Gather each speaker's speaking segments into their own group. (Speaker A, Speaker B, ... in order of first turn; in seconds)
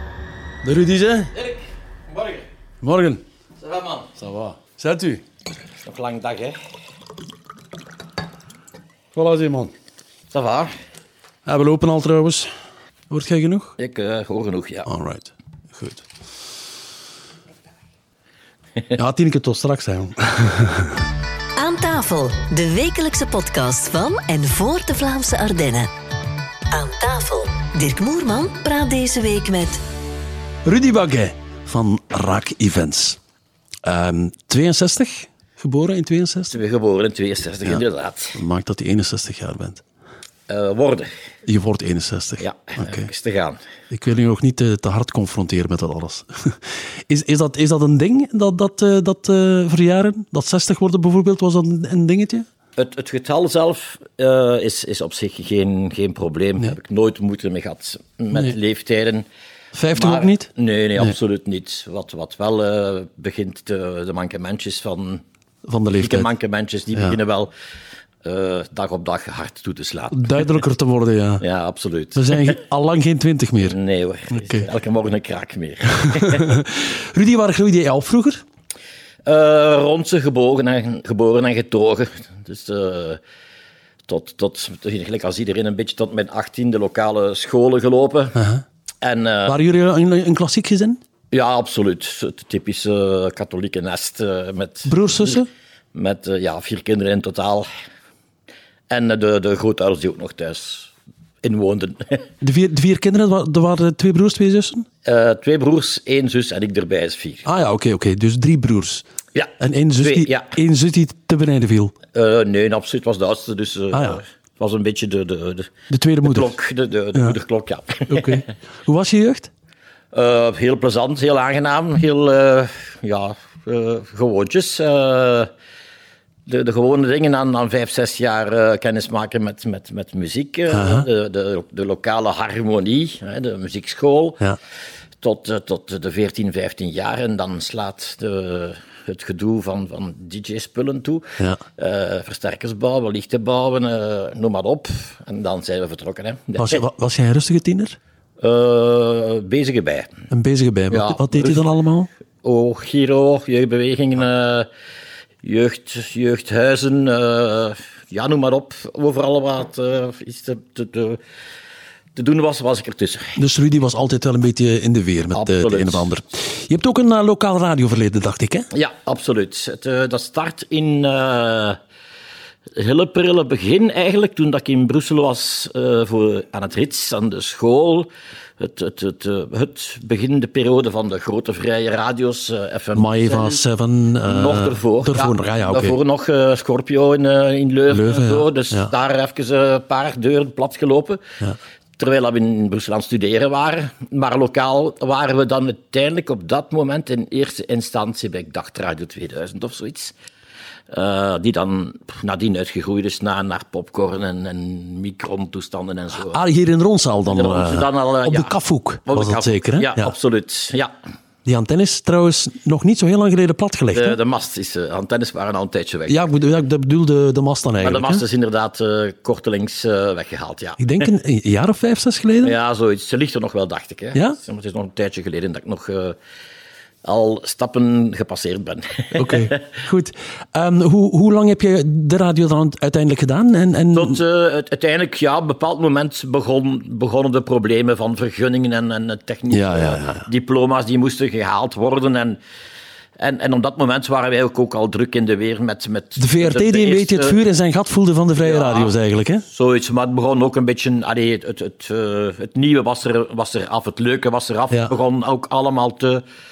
Speaker A: 0.6-1.3, 2.8-3.2, 4.2-5.2, 9.1-9.7, 11.4-12.5, 13.1-13.7, 14.8-16.0, 18.9-21.0, 30.6-33.2, 33.8-36.5, 38.4-39.8, 41.5-43.0, 43.9-52.5, 59.7-60.5, 65.6-66.3, 70.1-71.4, 72.1-73.8, 74.3-74.7, 76.1-78.4, 88.3-88.6, 89.5-91.0, 94.8-95.5, 102.4-104.8, 107.4-109.0, 109.6-111.9, 113.9-114.2, 115.9-116.5, 118.1-119.5, 130.7-131.1, 146.6-148.0, 150.3-152.1, 163.3-168.7, 182.9-186.0, 187.9-188.9, 206.2-210.1, 211.4-214.2, 216.1-218.2, 220.8-222.5, 229.2-234.2, 239.5-240.2, 246.2-249.4
Speaker B: 2.1-2.4, 3.6-4.1, 5.8-6.6, 10.3-10.7, 13.8-14.9, 36.5-38.4, 40.5-41.1, 42.4-43.6, 52.8-59.2, 59.9-65.2, 66.0-67.5, 68.2-70.4, 71.4-72.6, 73.6-76.6, 79.2-83.2, 84.1-88.4, 89.0-89.6, 91.3-97.7, 98.9-100.9, 101.4-102.2, 105.0-107.4, 109.3-110.5, 112.1-118.4, 120.1-125.5, 126.5-134.4, 135.2-146.8, 148.4-150.1, 150.9-151.6, 152.4-154.7, 155.4-161.2, 162.2-163.3, 165.3-166.1, 168.7-171.8, 172.8-183.6, 184.2-191.2, 192.0-200.1, 200.9-206.4, 207.3-208.5, 209.1-210.9, 213.9-216.2, 217.8-221.1, 222.4-226.2, 227.0-229.7, 233.9-242.4, 243.2-247.4, 248.4-256.2
Speaker C: 21.6-25.9, 26.7-29.8